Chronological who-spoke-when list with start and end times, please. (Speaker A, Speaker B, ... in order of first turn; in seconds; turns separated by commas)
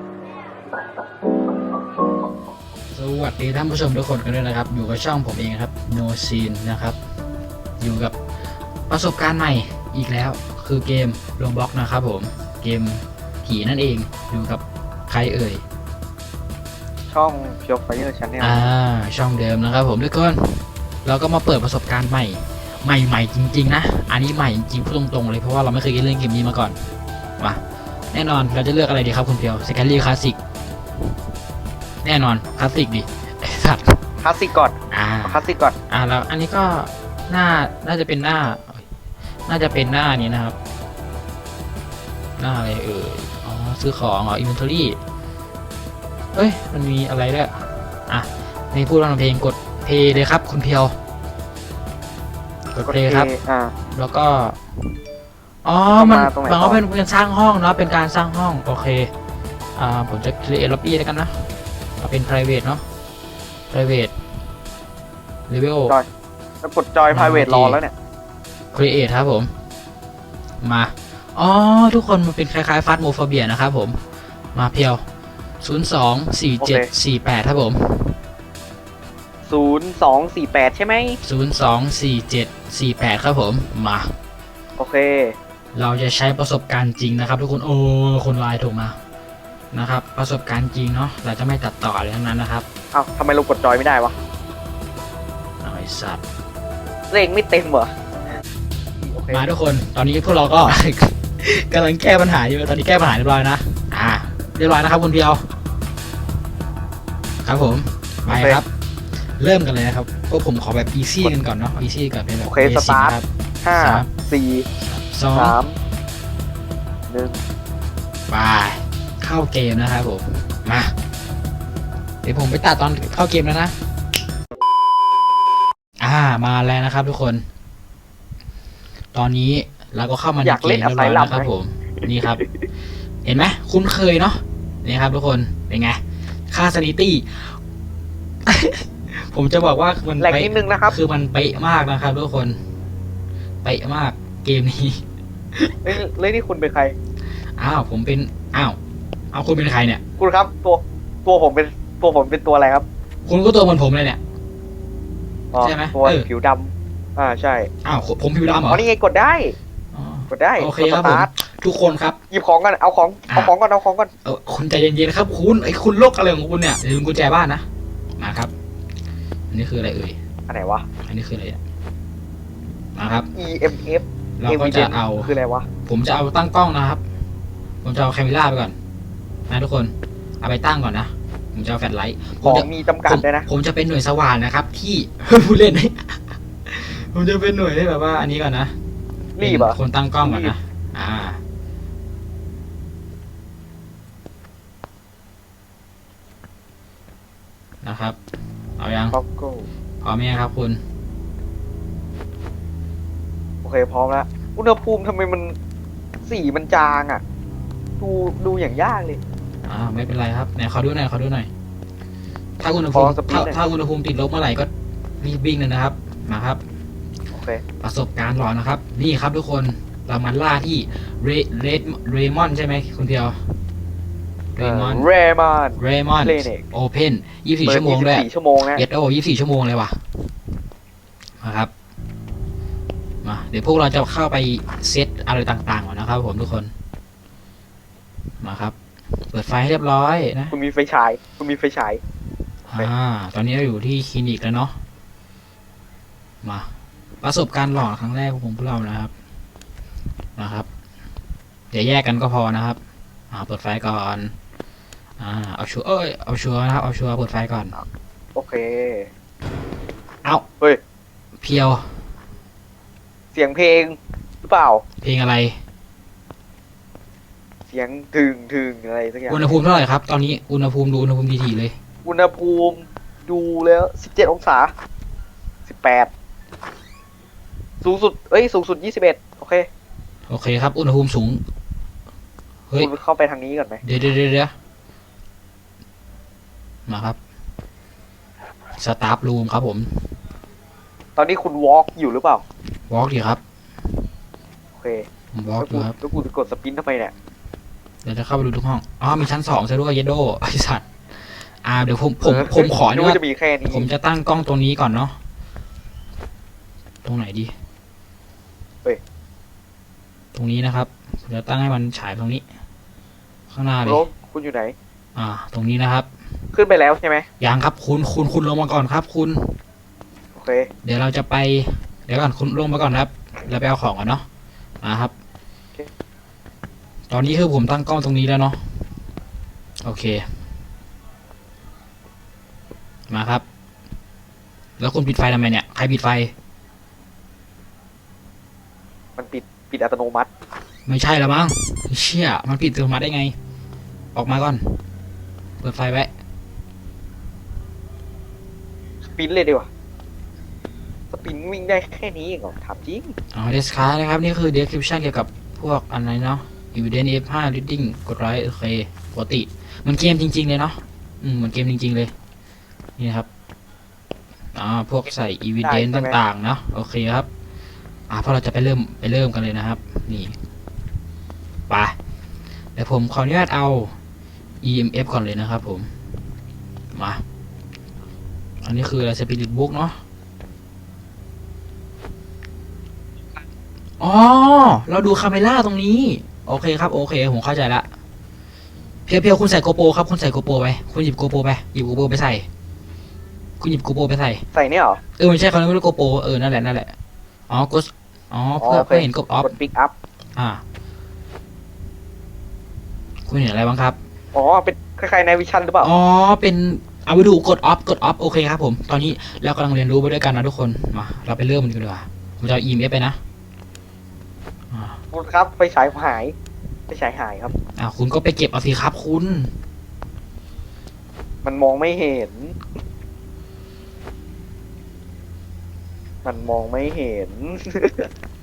Speaker A: 2.9-7.0, Speaker A: 7.8-8.2, Speaker A: 8.9-15.6, Speaker B: 17.1-18.7, Speaker A: 18.4-26.8, Speaker A: 28.1-30.4, Speaker A: 32.0-34.0, Speaker B: 34.2-35.7, Speaker A: 34.9-38.8, Speaker A: 39.5-40.5, Speaker A: 42.4-45.0, Speaker A: 46.3-51.0, Speaker A: 52.7-53.3, Speaker B: 52.9-53.7, Speaker A: 53.9-54.6, Speaker A: 55.6-59.1, Speaker B: 55.9-56.8, Speaker A: 59.8-62.8, Speaker A: 63.7-64.1, Speaker A: 65.5-66.0, Speaker B: 66.6-67.9, Speaker A: 67.1-67.8, Speaker A: 68.7-69.5, Speaker A: 70.6-74.0, Speaker A: 74.5-75.0, Speaker A: 75.6-78.2, Speaker B: 76.6-76.9, Speaker B: 79.5-81.2, Speaker A: 81.2-84.1, Speaker B: 84.8-85.4, Speaker A: 85.7-89.0, Speaker A: 89.7-92.7, Speaker B: 92.9-94.2, Speaker A: 95.6-96.2, Speaker B: 97.1-97.9, Speaker B: 99.0-99.5, Speaker A: 99.3-105.5, Speaker A: 107.4-108.7, Speaker B: 108.3-108.6, Speaker A: 109.2-113.3, Speaker B: 112.5-114.7, Speaker A: 113.8-114.1, Speaker A: 114.8-115.6, Speaker B: 115.3-115.8, Speaker B: 117.1-117.4, Speaker A: 118.3-120.9, Speaker A: 122.2-123.8, Speaker A: 126.0-127.4, Speaker A: 129.1-132.4, Speaker B: 130.4-131.5, Speaker B: 132.2-132.7, Speaker A: 133.2-137.6, Speaker A: 138.4-142.6, Speaker B: 140.2-141.0, Speaker A: 143.6-145.0, Speaker B: 145.8-146.9, Speaker A: 147.6-148.8, Speaker A: 149.3-150.0, Speaker B: 150.2-152.9, Speaker A: 153.2-154.2, Speaker B: 155.5-157.7, Speaker A: 155.6-156.2, Speaker A: 157.8-158.8, Speaker B: 158.7-159.6, Speaker A: 159.9-162.2, Speaker B: 160.3-161.3, Speaker B: 162.3-164.1, Speaker A: 164.2-167.7, Speaker A: 168.2-168.5, Speaker A: 169.5-170.2, Speaker B: 170.5-170.8, Speaker A: 171.1-171.6, Speaker A: 172.9-173.3, Speaker B: 173.3-175.7, Speaker A: 174.4-175.3, Speaker A: 175.9-177.0, Speaker A: 177.8-178.7, Speaker A: 179.5-188.8, Speaker B: 182.4-183.5, Speaker B: 189.4-190.5, Speaker A: 189.4-191.4, Speaker A: 197.8-198.2, Speaker A: 198.8-199.2, Speaker B: 199.1-199.7, Speaker A: 200.0-200.8, Speaker B: 203.6-205.6, Speaker B: 206.2-207.2, Speaker B: 208.0-209.2, Speaker A: 209.7-211.5, Speaker A: 212.6-216.6, Speaker B: 212.9-213.7, Speaker B: 217.3-217.6, Speaker A: 217.8-223.4, Speaker A: 224.6-225.1, Speaker B: 224.6-226.7, Speaker A: 225.8-230.0, Speaker B: 227.7-228.8, Speaker A: 231.4-231.7, Speaker A: 233.2-236.7, Speaker A: 238.4-240.6, Speaker B: 240.5-242.0, Speaker A: 242.7-244.8, Speaker A: 246.4-246.7, Speaker A: 247.2-249.1, Speaker A: 250.4-250.7, Speaker A: 251.7-252.8, Speaker A: 253.3-254.3, Speaker A: 255.2-257.8, Speaker B: 258.4-259.1, Speaker A: 261.4-262.1, Speaker B: 263.3-264.8, Speaker A: 265.0-265.6, Speaker B: 267.7-269.6, Speaker A: 269.3-271.8, Speaker B: 272.1-274.7, Speaker B: 275.7-276.1, Speaker B: 277.8-279.7, Speaker A: 280.3-281.4, Speaker B: 282.8-283.8, Speaker A: 283.8-284.5, Speaker A: 286.9-287.2, Speaker A: 288.7-290.1, Speaker B: 291.2-292.4, Speaker A: 292.8-293.4, Speaker B: 294.8-295.1, Speaker A: 295.3-295.9, Speaker B: 295.6-297.1, Speaker A: 298.0-305.2, Speaker B: 302.2-303.9, Speaker A: 307.0-307.5, Speaker A: 310.3-312.4, Speaker A: 313.5-314.1, Speaker B: 313.9-314.8, Speaker A: 315.1-316.1, Speaker B: 316.5-317.3, Speaker A: 317.4-319.5, Speaker B: 320.4-320.7, Speaker A: 320.8-324.2, Speaker A: 324.8-325.1, Speaker A: 327.1-328.9, Speaker A: 329.8-330.3, Speaker A: 333.1-333.4, Speaker A: 334.8-336.3, Speaker B: 339.2-340.3, Speaker A: 340.9-343.4, Speaker A: 344.1-344.8, Speaker A: 345.6-346.1, Speaker B: 349.1-349.7, Speaker B: 351.1-353.1, Speaker A: 353.3-362.1, Speaker A: 363.0-363.3, Speaker A: 364.6-367.3, Speaker B: 365.6-366.2, Speaker A: 368.1-370.4, Speaker A: 371.7-371.9, Speaker A: 372.8-373.9, Speaker A: 374.6-375.9, Speaker A: 376.9-377.2, Speaker A: 378.6-380.0, Speaker A: 384.0-387.9, Speaker A: 389.1-392.4, Speaker A: 393.6-394.4, Speaker B: 394.5-395.0, Speaker A: 395.2-396.9, Speaker A: 397.5-399.5, Speaker B: 398.6-399.9, Speaker A: 400.4-400.6, Speaker A: 403.2-404.0, Speaker B: 404.3-405.9, Speaker A: 405.8-413.2, Speaker A: 414.7-415.0, Speaker B: 415.1-416.4, Speaker B: 416.9-417.5, Speaker A: 417.8-419.6, Speaker B: 421.4-422.6, Speaker B: 426.2-428.1